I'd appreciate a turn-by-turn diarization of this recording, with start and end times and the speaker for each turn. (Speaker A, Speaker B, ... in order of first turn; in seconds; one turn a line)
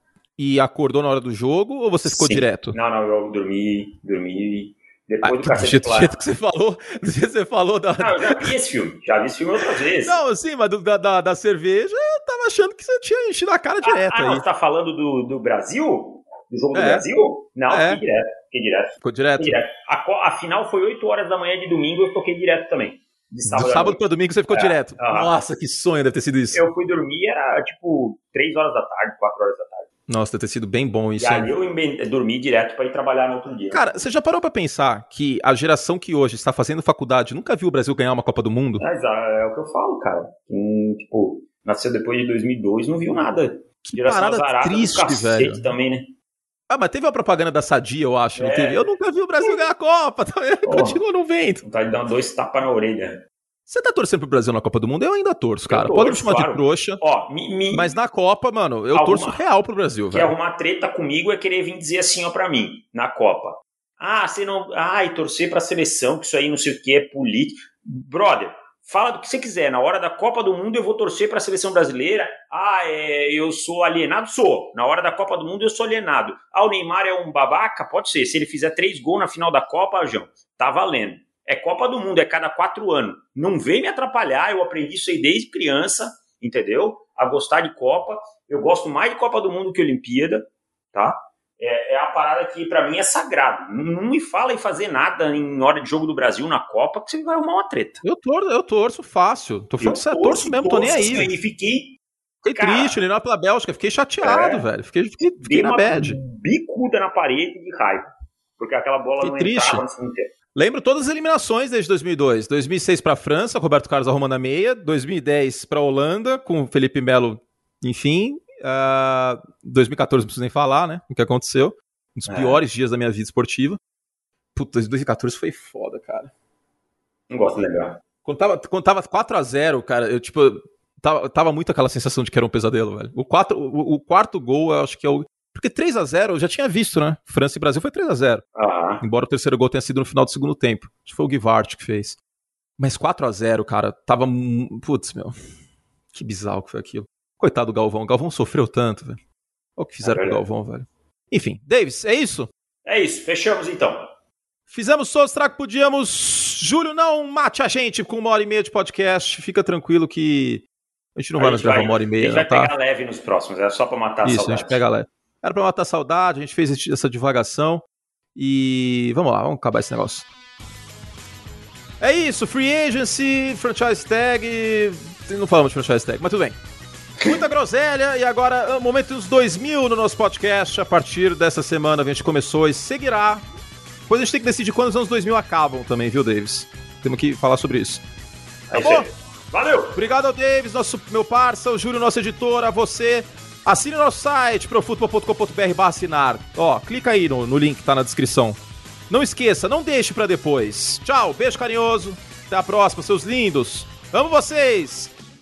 Speaker A: 0.4-2.8
Speaker B: 2.0-6.2
Speaker A: 5.2-8.5
Speaker B: 8.0-10.2
Speaker A: 10.0-14.4
Speaker B: 13.8-24.0
Speaker A: 16.7-17.1
Speaker A: 17.7-18.0
Speaker A: 19.0-19.6
Speaker A: 23.5-26.6
Speaker B: 24.5-25.3
Speaker B: 26.5-29.9
Speaker A: 30.1-31.5
Speaker B: 31.2-34.0
Speaker A: 33.7-38.8
Speaker B: 38.8-46.1
Speaker A: 43.8-45.7
Speaker A: 46.7-51.6
Speaker B: 48.3-48.9
Speaker B: 50.6-51.0
Speaker B: 51.6-53.2
Speaker A: 53.7-57.0
Speaker B: 55.7-57.9
Speaker A: 57.7-60.3
Speaker B: 58.9-59.4
Speaker B: 60.1-98.0
Speaker A: 98.0-101.3
Speaker B: 99.8-102.0
Speaker A: 102.4-106.2
Speaker B: 102.5-103.0
Speaker B: 104.2-104.7
Speaker B: 105.4-110.3
Speaker A: 109.2-109.8
Speaker A: 110.5-123.8
Speaker B: 122.3-122.6
Speaker A: 124.5-126.3
Speaker B: 127.3-128.0
Speaker A: 128.2-138.4
Speaker B: 138.6-139.0
Speaker A: 139.0-142.2
Speaker A: 142.8-145.3
Speaker A: 146.1-149.2
Speaker A: 149.8-152.5
Speaker B: 150.0-150.4
Speaker B: 152.8-154.1
Speaker A: 154.7-160.6
Speaker A: 161.2-162.7
Speaker B: 161.4-164.8
Speaker A: 164.2-170.3
Speaker A: 172.0-176.6
Speaker A: 177.2-183.4
Speaker A: 184.1-188.0
Speaker B: 188.7-190.0
Speaker A: 188.7-189.1
Speaker A: 189.9-198.6
Speaker A: 199.1-205.1